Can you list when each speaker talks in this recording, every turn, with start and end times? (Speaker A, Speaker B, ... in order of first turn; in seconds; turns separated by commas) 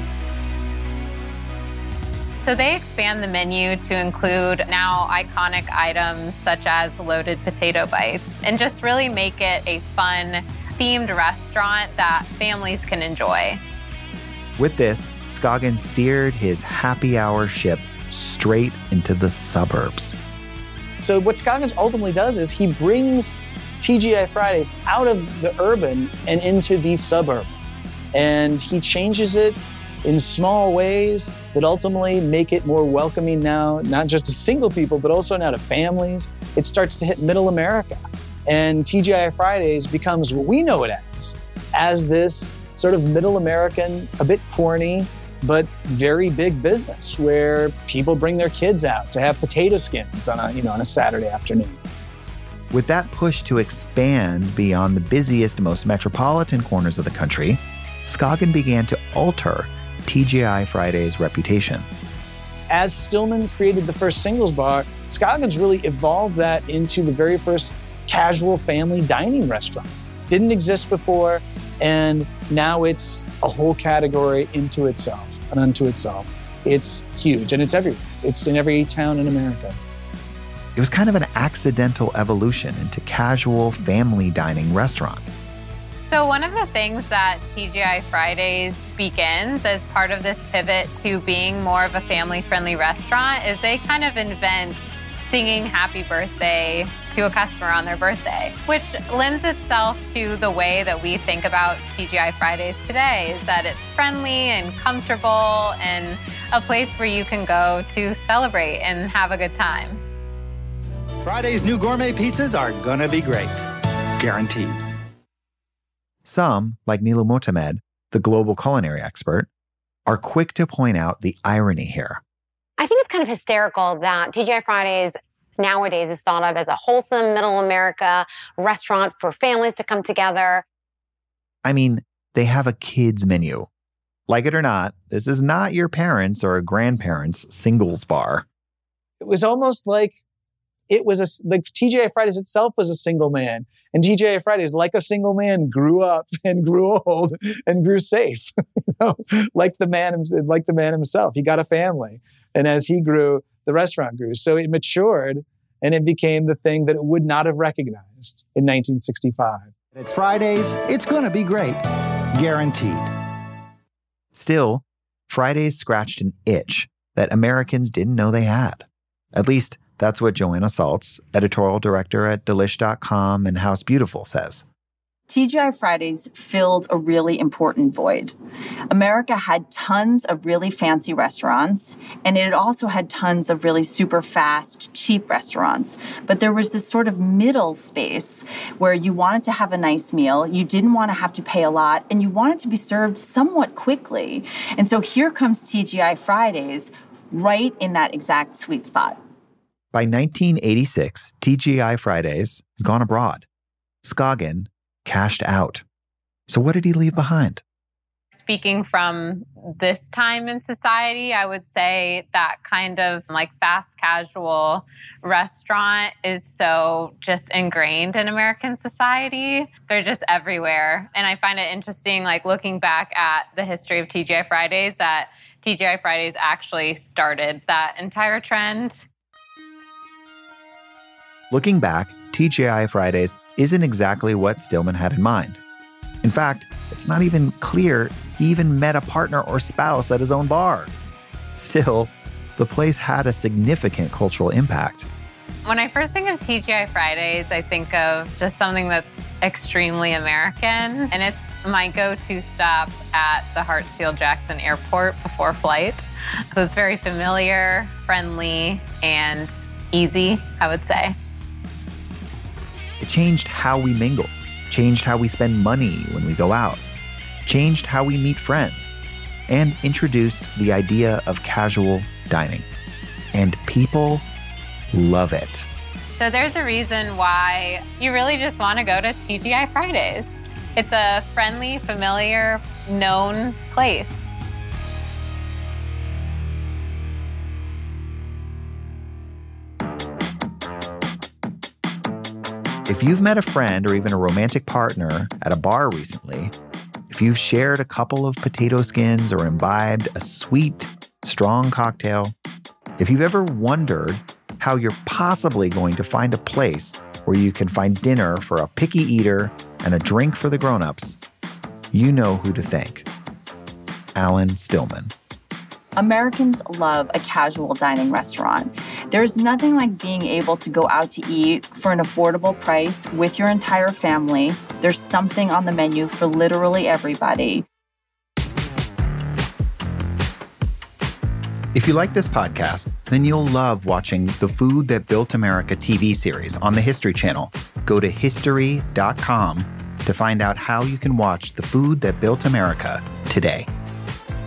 Speaker A: 2.4-13.6, Speaker B: 14.6-20.2, Speaker C: 21.0-27.5, Speaker C: 28.1-51.8, Speaker B: 52.7-61.9, Speaker C: 62.7-79.8, Speaker B: 80.8-85.3, Speaker A: 86.0-110.0, Speaker D: 111.2-113.5, Speaker D: 114.2-114.8, Speaker B: 116.2-119.5, Speaker B: 120.0-122.2, Speaker E: 122.8-130.6, Speaker B: 131.6-133.7, Speaker B: 134.3-138.4, Speaker C: 139.2-140.2, Speaker C: 140.9-159.7, Speaker D: 159.9-161.8, Speaker D: 162.4-163.1, Speaker B: 164.3-174.6, Speaker F: 175.3-178.3, Speaker F: 178.9-199.2, Speaker B: 199.9-203.4, Speaker B: 204.0-205.8, Speaker B: 206.5-207.6, Speaker A: 208.3-229.1, Speaker B: 231.5-235.6, Speaker B: 236.2-240.9, Speaker B: 241.5-245.1, Speaker A: 245.7-261.1, Speaker B: 263.0-266.8, Speaker B: 267.4-268.9, Speaker B: 269.5-272.7, Speaker B: 273.3-274.2, Speaker B: 274.9-275.7, Speaker A: 276.1-284.3, Speaker B: 292.9-296.5, Speaker B: 297.1-302.3, Speaker B: 303.0-311.2, Speaker B: 311.9-313.1, Speaker B: 314.1-315.1, Speaker F: 315.9-327.6, Speaker B: 331.7-343.7